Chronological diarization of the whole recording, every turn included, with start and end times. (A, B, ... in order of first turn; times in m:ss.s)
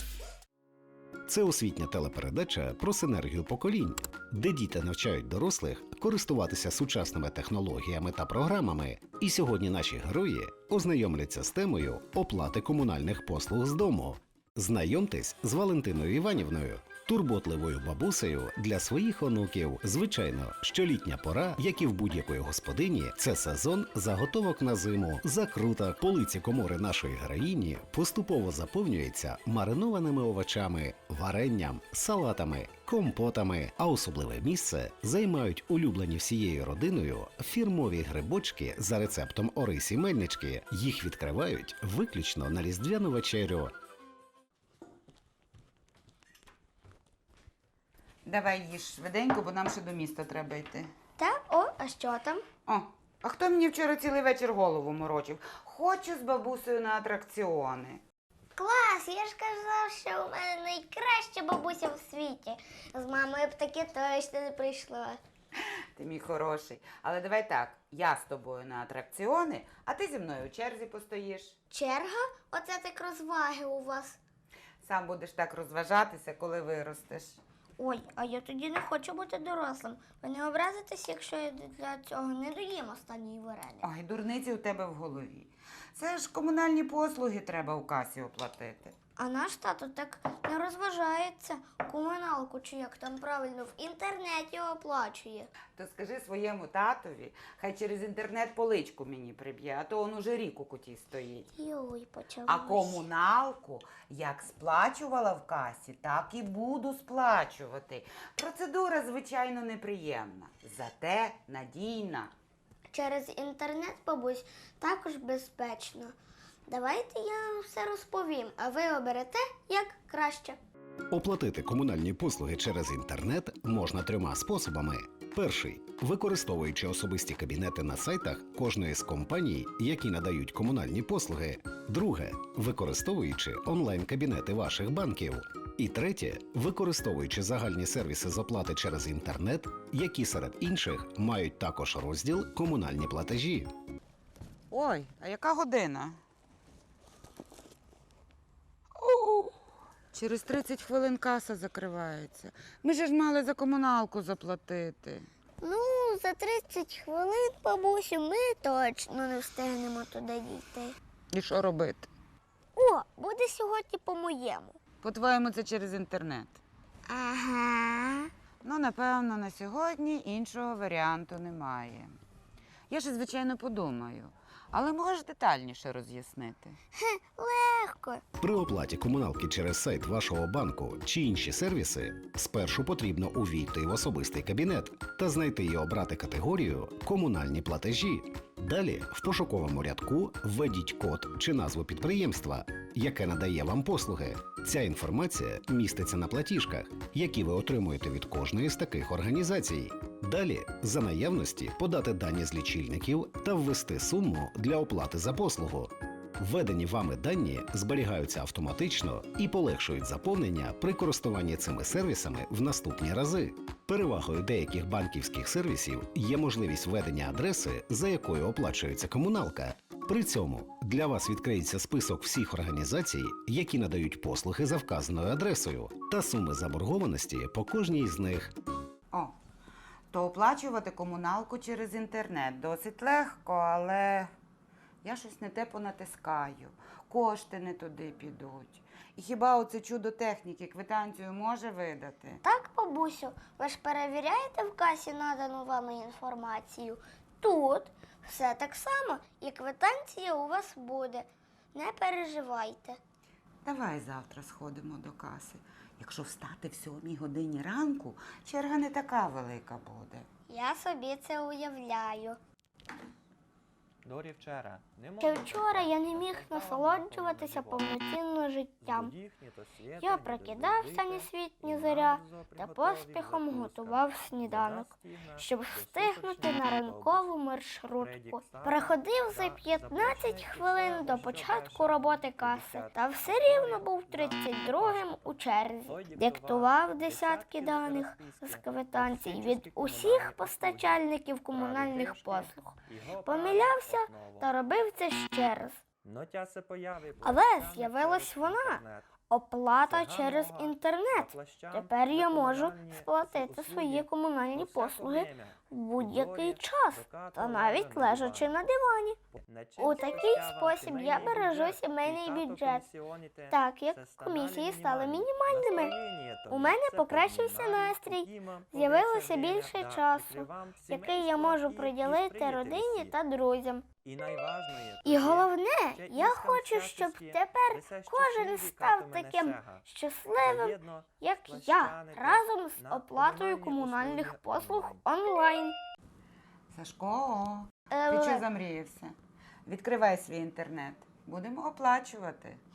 0:01.3-0:43.7 A
0:48.2-0:50.9 B
0:51.2-0:52.4 C
0:52.7-0:58.0 B
0:58.6-1:05.2 C
1:06.0-1:11.6 B
1:11.7-1:14.2 C
1:14.8-1:17.4 B
1:17.8-1:23.9 C
1:23.8-1:28.9 B
1:29.2-1:35.5 C
1:35.8-1:41.5 B
1:41.6-1:43.0 C
1:42.5-1:52.3 B
1:52.9-1:56.1 C
1:56.7-2:00.6 C
2:01.1-2:23.7 A
2:24.7-2:26.2 B
2:29.0-2:29.6 B
2:30.1-2:35.3 B
2:35.6-2:41.0 C
2:41.3-2:42.1 B
2:42.8-2:44.8 C
2:45.0-2:46.6 B
2:47.1-2:48.3 C
2:48.6-2:52.2 B
2:52.9-2:56.8 B
2:57.0-2:58.2 C
2:58.4-3:48.5 A
3:50.1-3:54.3 B
3:55.0-4:02.4 B
4:02.4-4:13.0 C
4:13.6-4:20.3 B
4:20.5-4:22.4 C
4:24.1-4:24.9 D
4:25.2-4:29.2 C
4:30.0-4:55.8 C
4:39.9-4:41.9 D
4:49.4-4:50.2 D
4:57.2-5:09.2 C
5:07.6-5:07.9 D
5:09.8-5:12.9 C
5:09.8-5:11.7 D
5:13.5-5:16.0 C
5:16.5-5:23.9 C
5:19.0-5:19.3 D
5:21.5-5:23.1 D
5:24.3-5:25.4 D
5:25.0-5:35.8 C
5:26.1-5:27.2 D
5:28.0-5:29.6 D
5:30.5-5:30.8 D
5:31.5-5:32.4 D
5:33.0-5:34.4 D
5:36.7-5:39.2 B
5:37.9-5:38.5 C
5:39.7-5:42.6 B